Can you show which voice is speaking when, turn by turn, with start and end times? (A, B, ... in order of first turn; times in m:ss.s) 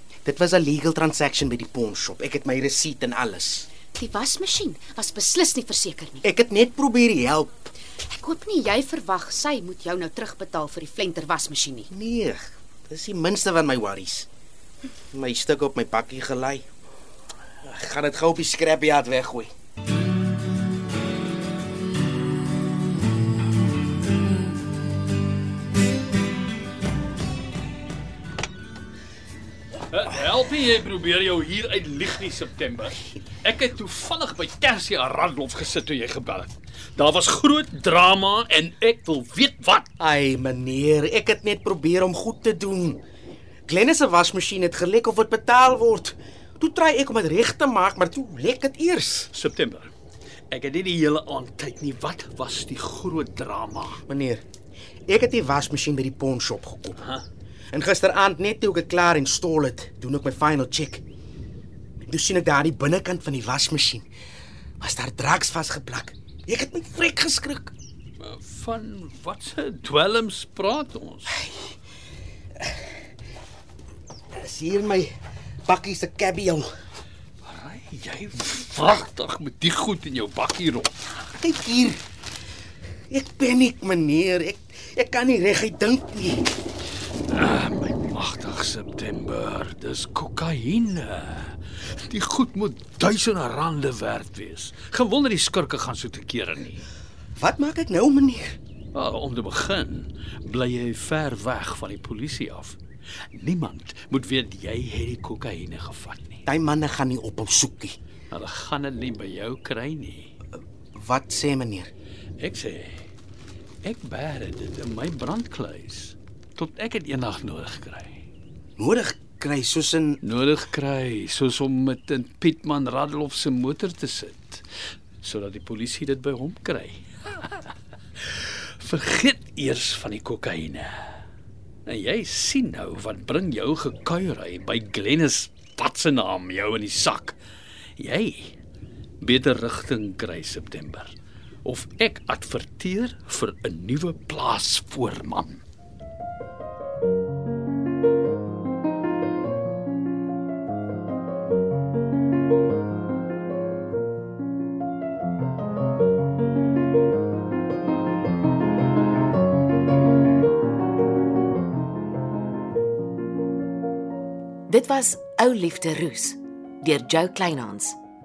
0:00.2-0:03.7 A
0:04.0-0:06.3 B
0:06.2-0:07.7 A
0:08.0-0:11.9 B
0:11.9-0:14.3 A
0:15.1-0:16.7 A
0:17.6-0:19.5 A
0:29.9-0:39.9 C
0:40.0-0:43.0 A
0:43.7-0:49.3 A
0:49.3-0:49.9 C
0:50.5-0:54.0 C
0:54.1-0:54.4 A
0:55.1-0:57.0 A
0:57.0-0:57.2 C
0:57.7-1:01.0 A
1:02.1-1:04.0 A
1:04.8-1:07.7 A
1:08.2-1:11.4 C
1:11.5-1:11.7 A
1:14.4-1:15.1 A
1:15.7-1:16.7 A
1:17.4-1:20.9 C
1:21.3-1:22.0 A
1:23.1-1:26.5 A
1:27.3-1:36.8 C
1:37.4-1:38.6 A
1:38.9-1:42.8 C
1:43.3-1:46.4 C
1:46.5-1:48.0 A
1:48.3-1:50.3 C
1:51.0-1:51.9 A
1:52.4-1:53.1 C
1:53.8-1:58.2 C
1:58.8-2:00.2 A
2:00.2-2:04.7 C
2:05.2-2:11.2 C
2:11.9-2:17.4 C
2:18.0-2:18.6 C
2:19.2-2:25.6 C
2:44.7-2:48.0 D